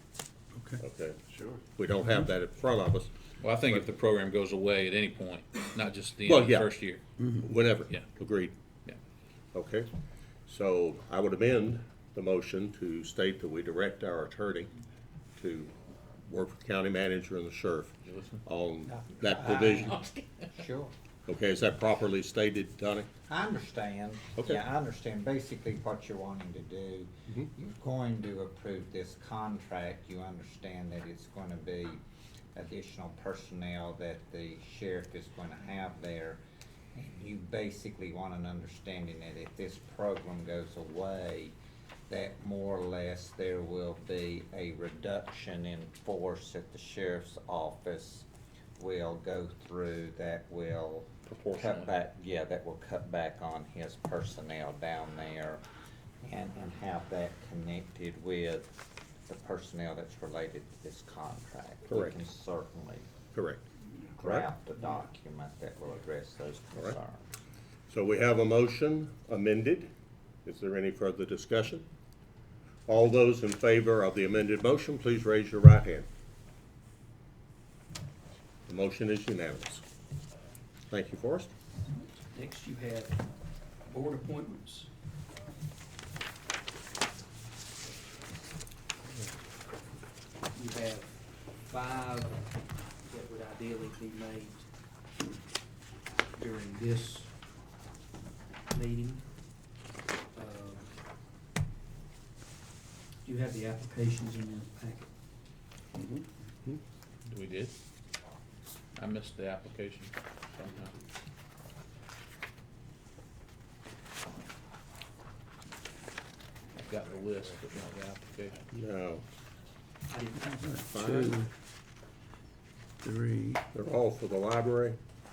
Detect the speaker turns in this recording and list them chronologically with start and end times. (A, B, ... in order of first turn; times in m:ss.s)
0:00.5-0:00.8 A
0:00.8-0:01.2 B
0:01.8-0:03.1 B
0:03.4-0:07.0 C
0:06.2-0:06.7 B
0:07.2-0:07.4 A
0:07.3-0:08.5 B
0:09.5-0:09.9 B
0:10.5-0:14.7 B
0:15.4-0:15.7 B
0:16.2-0:20.0 B
0:18.1-0:18.4 C
0:18.9-0:20.9 D
0:21.3-0:23.1 B
0:23.3-0:32.0 D
0:32.6-0:36.4 D
0:36.9-0:41.5 D
0:42.1-0:48.3 D
0:48.8-0:55.6 D
0:51.3-0:51.9 C
0:56.2-0:58.7 D
0:59.3-1:03.1 D
1:01.9-1:02.1 B
1:03.3-1:03.6 B
1:04.2-1:07.3 D
1:07.9-1:09.9 B
1:10.4-1:11.8 B
1:12.9-1:16.1 B
1:18.7-1:19.8 B
1:20.9-1:21.5 B
1:22.3-1:23.2 E
1:23.9-1:24.9 E
1:30.5-1:32.5 E
1:33.0-1:34.7 E
1:36.4-1:37.3 E
1:38.7-1:39.2 E
1:40.3-1:40.9 E
1:43.2-1:45.1 E
1:47.3-1:47.7 C
1:49.0-1:50.9 C
1:50.6-1:51.0 E
1:56.8-1:58.6 C
1:58.7-1:59.2 B
2:00.1-2:00.9 E
2:00.6-2:01.5 A
2:00.9-2:01.4 B
2:03.0-2:03.6 A
2:03.7-2:05.0 B